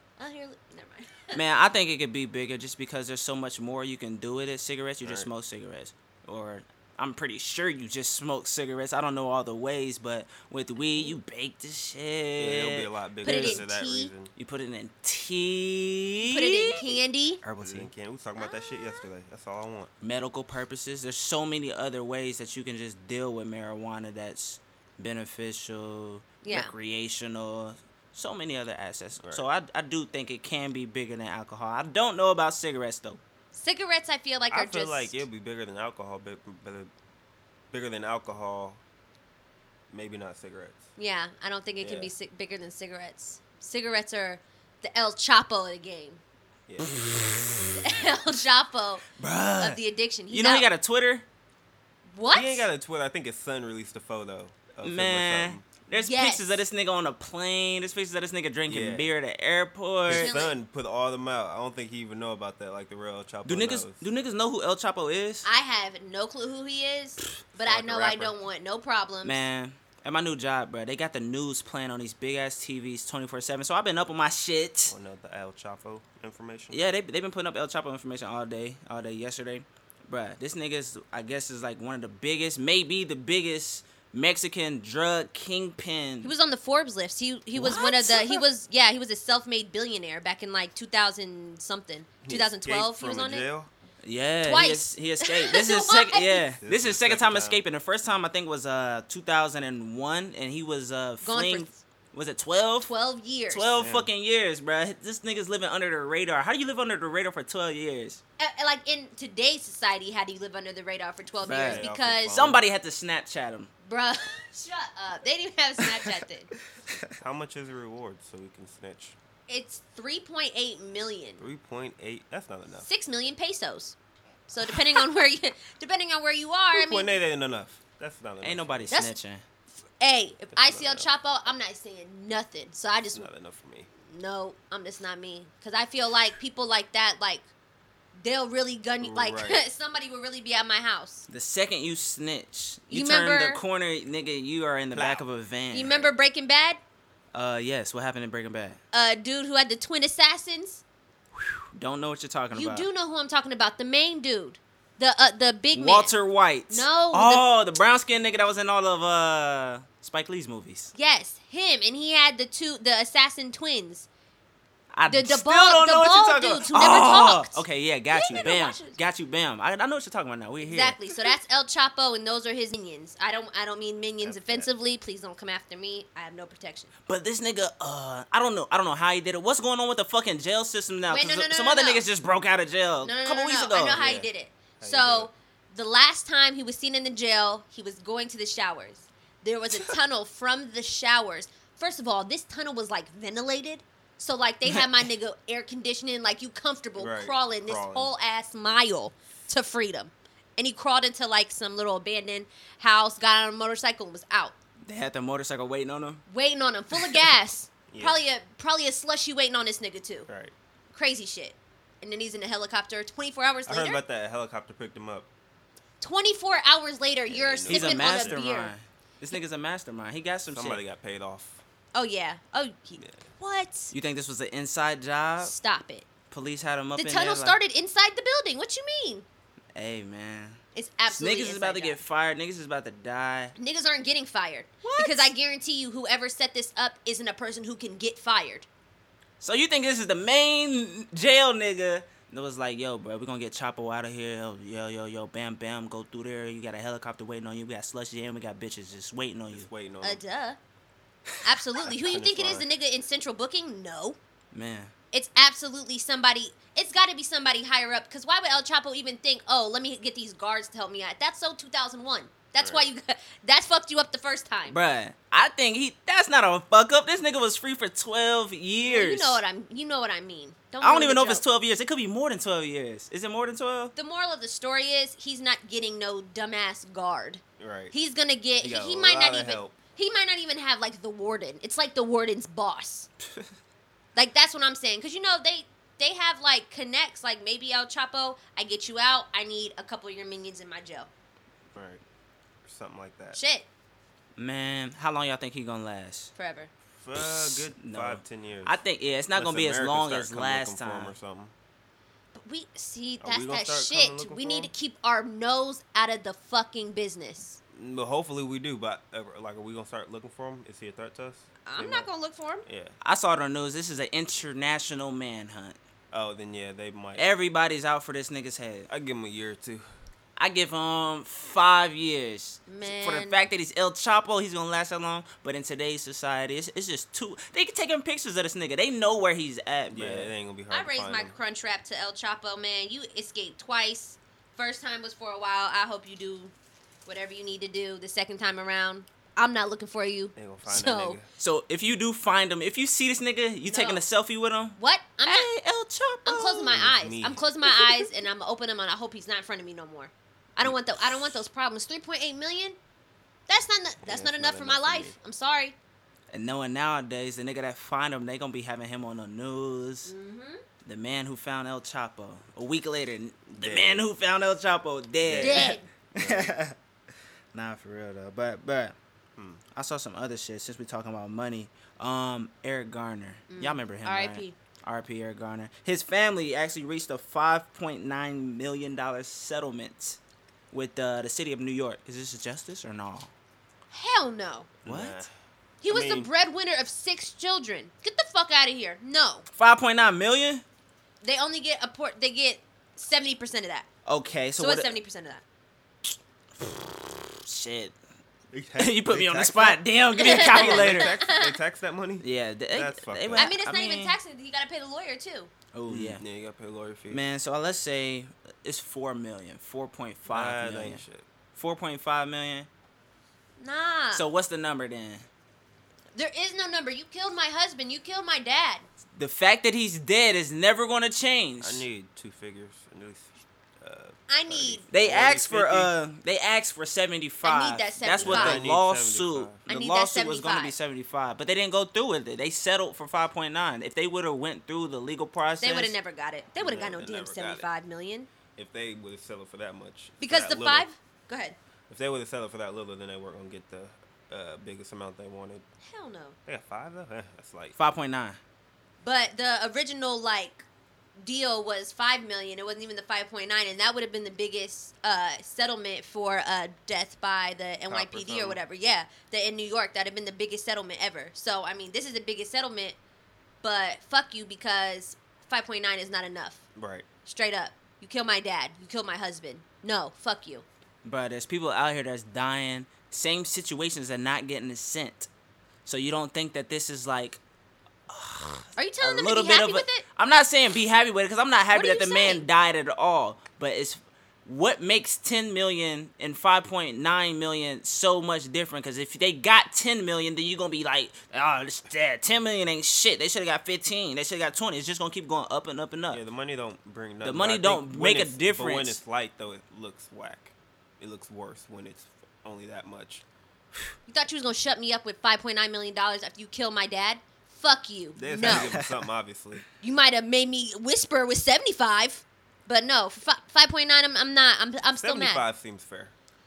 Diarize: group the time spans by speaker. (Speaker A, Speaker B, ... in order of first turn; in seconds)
Speaker A: 0.2-1.4, 10.9-11.2, 13.2-14.1, 16.2-17.4, 18.4-19.1, 26.4-26.7, 33.5-35.2, 41.0-46.2, 47.8-49.1, 49.6-50.7, 52.1-52.7, 55.9-56.6, 60.1-60.5, 65.5-69.4, 86.2-93.5, 94.4-96.5, 101.2-101.8, 102.8-103.7, 108.4-112.4, 113.9-116.5, 119.5-121.4, 122.8-124.0, 124.5-127.2, 128.9-129.2, 130.0-133.3, 134.1-137.5, 138.2-141.3, 142.9-143.6, 145.7-146.8, 148.9-150.8, 152.5-156.1, 156.7-157.5, 160.9-164.1, 165.1-169.0, 170.6-176.9, 181.1-182.1, 183.0-204.6, 206.3-210.3, 210.9-214.0, 216.0-218.7, 221.9-223.9, 225.4-226.1, 227.0-229.3, 230.8-232.0, 233.6-238.7, 250.0-250.6, 251.4-254.2, 255.1-264.8, 268.9-271.4, 273.9-283.1, 284.1-291.1, 293.3-293.7, 296.4-296.7, 302.3-307.6, 311.6-312.6, 322.7-323.4, 330.7-336.5, 337.1-341.2, 343.7-344.0, 344.8-345.5, 346.2-352.8, 353.5-355.8, 360.1-360.6, 365.4-365.9, 373.5-374.6, 383.9-384.7, 385.8-389.5, 391.2-393.9, 394.6-395.4, 400.2-401.6, 403.4-405.5, 413.6-414.2, 416.1-418.8, 424.3-424.9, 427.4-428.6, 429.7-430.8, 435.6-438.3, 440.2-441.6, 445.8-446.4, 449.0-450.6, 451.2-463.0, 463.6-466.6, 467.2-470.6, 478.8-480.0, 481.7-482.4, 504.1-508.8, 509.8-515.4
Speaker B: 1.3-13.6, 14.4-17.9, 20.0-33.2, 46.8-47.8, 49.2-49.8, 50.3-51.3, 54.8-60.4, 63.5-65.5, 69.2-75.0, 76.7-86.3, 87.5-88.4, 94.0-102.9, 103.5-108.2, 111.4-113.7, 128.4-129.4, 141.3-146.0, 147.3-148.8, 151.3-152.9, 155.7-160.9, 164.9-171.2, 177.1-184.0, 194.7-195.0, 204.8-206.2, 217.7-220.8, 223.9-225.5, 226.3-227.6, 229.8-233.5, 234.8-235.3, 239.4-249.7, 254.5-254.9, 264.7-269.4, 270.8-273.9, 294.4-296.3, 297.2-301.1, 313.0-315.8, 317.2-318.9, 320.4-330.3, 341.4-346.8, 347.7-348.1, 356.3-360.1, 360.8-366.8, 367.5-368.9, 369.7-380.2, 380.7-383.3, 384.9-385.3, 389.6-390.6, 394.1-395.0, 396.1-397.9, 398.8-401.2, 402.2-404.2, 405.7-406.2, 407.1-411.0, 411.6-412.7, 414.1-415.3, 419.2-421.9, 424.9-435.9, 447.8-448.4, 471.0-475.3, 475.9-477.4, 478.1-496.2, 497.2-499.0, 508.4-508.9
Speaker C: 5.0-5.3, 12.4-14.3, 17.6-19.9, 29.2-29.5, 34.5-36.9, 37.7-38.8, 39.9-40.9, 41.8-42.1, 46.7-46.9, 52.3-55.7, 58.7-59.1, 60.1-64.0, 67.6-68.3, 74.9-76.9, 92.2-93.7, 96.6-97.6, 103.7-104.1, 111.5-112.6, 117.2-119.2, 121.4-122.9, 126.7-129.0, 130.6-131.1, 133.1-133.9, 139.0-139.6, 144.9-145.2, 168.3-168.6, 174.2-174.7, 183.9-184.3, 184.8-185.3, 197.0-198.1, 207.9-208.2, 210.3-210.5, 213.7-215.3, 217.3-218.4, 220.5-221.6, 223.0-223.2, 249.5-250.2, 251.8-252.7, 262.6-262.9, 277.6-277.9, 278.6-279.8, 291.7-292.0, 292.6-293.4, 297.0-298.8, 299.3-301.5, 303.2-304.7, 307.7-312.1, 312.6-313.0, 316.1-317.3, 318.9-319.9, 329.9-331.4, 340.4-341.3, 346.7-347.4, 350.6-351.1, 354.0-355.2, 363.5-364.1, 365.2-366.6, 369.4-369.6, 384.8-385.3, 385.9-386.3, 398.5-403.6, 405.9-407.2, 410.3-411.3, 421.6-425.9, 428.2-429.6, 436.6-437.7, 438.6-440.9, 441.9-445.6, 446.5-447.8, 457.9-458.6, 466.8-467.1, 496.1-503.2, 508.2-509.6, 514.9-516.1